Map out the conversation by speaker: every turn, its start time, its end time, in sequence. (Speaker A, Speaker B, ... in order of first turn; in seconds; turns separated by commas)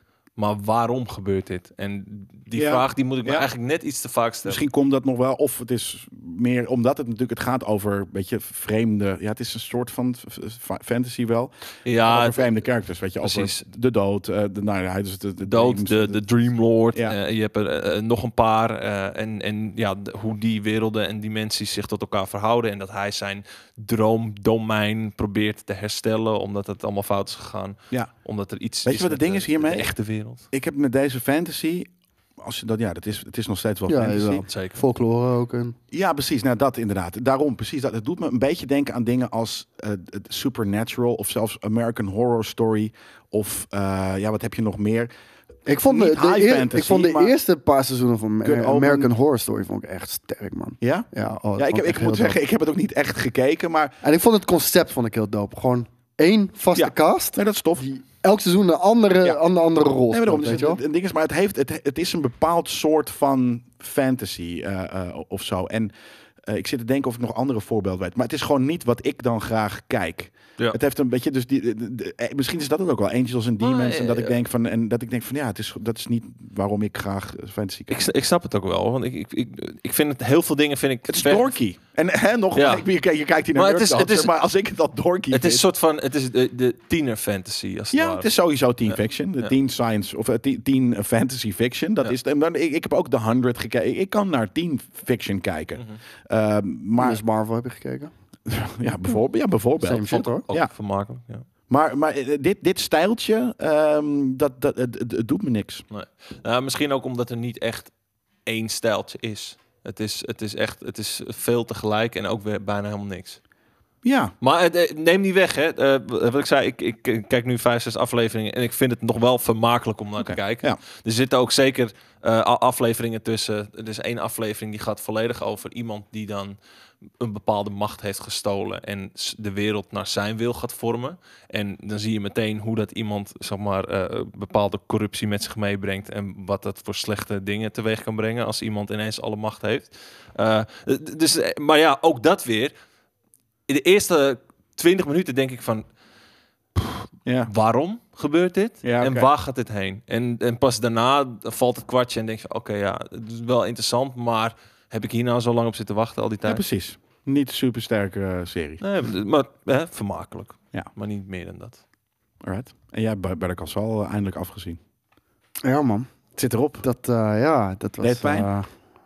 Speaker A: 0.4-4.6, Speaker B: 2.5-3.5, Speaker B: 4.5-16.2, Speaker A: 11.9-12.5, Speaker A: 13.2-13.6, Speaker A: 15.4-30.4, Speaker B: 28.9-29.9, Speaker B: 30.5-34.5, Speaker C: 33.9-35.8, Speaker A: 34.5-34.8, Speaker B: 35.9-45.1, Speaker C: 45.7-52.4, Speaker B: 45.8-47.3, Speaker B: 48.4-49.1, Speaker B: 50.8-53.9, Speaker C: 54.0-60.8, Speaker B: 56.8-57.8, Speaker B: 60.1-65.9, Speaker B: 66.4-77.9, Speaker A: 73.6-74.4, Speaker A: 77.9-81.5, Speaker B: 81.1-85.7, Speaker A: 82.6-82.9, Speaker A: 83.6-84.3, Speaker A: 85.3-88.3, Speaker B: 87.9-97.2, Speaker A: 88.9-89.5, Speaker C: 97.0-98.1, Speaker B: 98.5-100.7, Speaker C: 99.8-100.5, Speaker A: 100.1-101.5, Speaker B: 101.7-105.8, Speaker A: 105.9-107.9, Speaker A: 108.5-113.4, Speaker B: 114.0-114.3, Speaker A: 114.4-126.6, Speaker B: 120.2-120.8, Speaker A: 127.2-142.7, Speaker A: 143.7-145.8, Speaker A: 146.8-156.6, Speaker B: 148.8-149.3, Speaker B: 156.4-158.8, Speaker A: 158.8-161.8, Speaker B: 162.4-164.8, Speaker C: 165.6-166.1, Speaker B: 166.4-166.8, Speaker C: 166.8-168.7, Speaker B: 168.0-168.5